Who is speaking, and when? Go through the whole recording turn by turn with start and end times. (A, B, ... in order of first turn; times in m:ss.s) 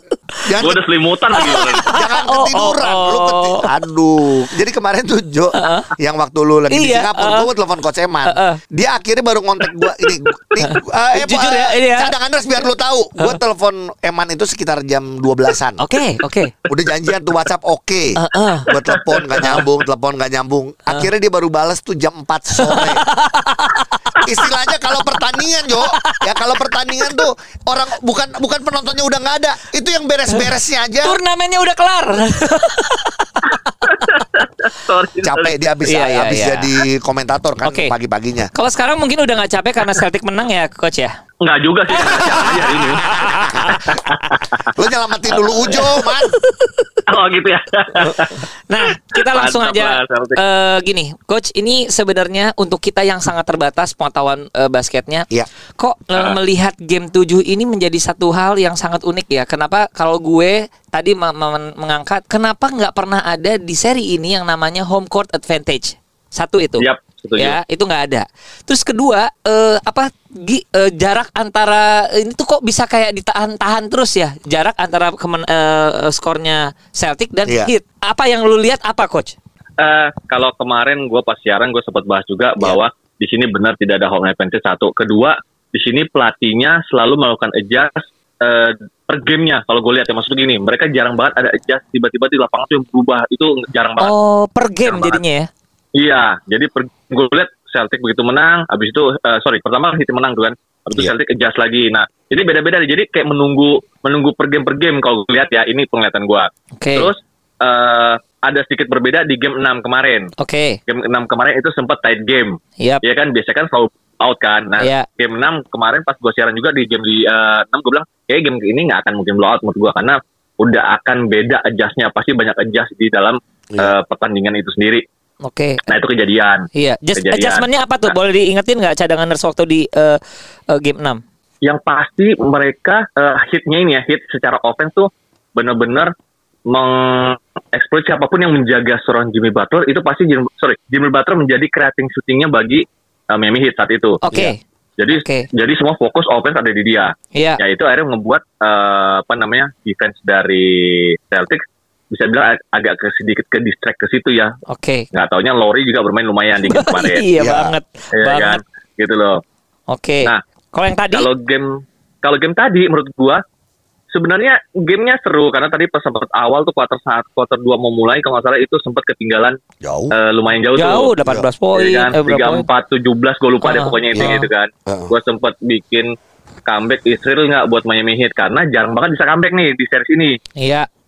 0:00.4-0:00.8 A
0:00.6-0:01.9 B
0:01.4-0:15.8 A
0:01.4-0:03.7 C
0:05.6-0:05.9 C
0:06.7-0:07.5 C
0:08.3-0:08.6 C
0:10.6-0:12.1 C
0:15.8-0:16.5 C
0:16.7-0:23.0 A
0:18.2-0:18.7 C
0:18.7-0:19.6 B
0:22.6-0:24.5 C
0:24.2-0:31.2 A
0:25.4-0:26.2 C
0:27.0-0:27.2 C
0:31.0-0:33.8 C
0:33.8-0:35.6 B
0:35.2-0:38.5 A
0:35.9-0:36.7 C
0:37.6-0:37.9 C
0:38.5-0:41.1 C
0:41.4-0:44.7 B
0:41.9-0:44.0 C
0:43.0-0:43.7 A
0:44.7-0:46.4 A
0:45.3-0:46.4 C
0:47.0-0:48.4 B
0:48.7-0:55.3 C
0:49.1-0:50.4 B
0:55.8-1:19.4 C
1:06.8-1:07.6 B
1:17.5-1:17.7 A
1:19.8-1:34.1 B
1:34.0-1:35.5 C
1:34.9-1:35.2 B
1:36.0-1:50.3 B
1:46.8-1:47.1 C
1:50.4-1:50.8 C
1:50.9-2:05.0 B
1:54.8-1:55.1 C
2:05.4-2:05.9 C
2:05.9-2:08.2 B
2:06.8-2:10.2 C
2:10.7-2:11.2 C
2:11.6-2:16.1 B
2:16.7-2:24.2 B
2:24.2-2:24.6 C
2:25.0-2:34.5 B
2:25.1-2:25.5 C
2:27.4-2:27.6 C
2:34.7-2:35.1 C
2:35.1-2:37.3 B
2:36.6-2:38.6 C
2:37.4-2:37.8 A
2:38.2-2:39.4 B
2:39.9-2:41.3 C
2:41.1-2:43.4 B
2:44.1-2:49.6 B
2:49.8-2:50.1 A
2:50.1-2:51.1 B
2:50.8-2:52.7 C
2:51.7-2:56.1 B
2:53.6-2:54.5 C
2:54.9-2:55.1 A
2:56.7-3:00.4 B
3:00.6-3:00.9 C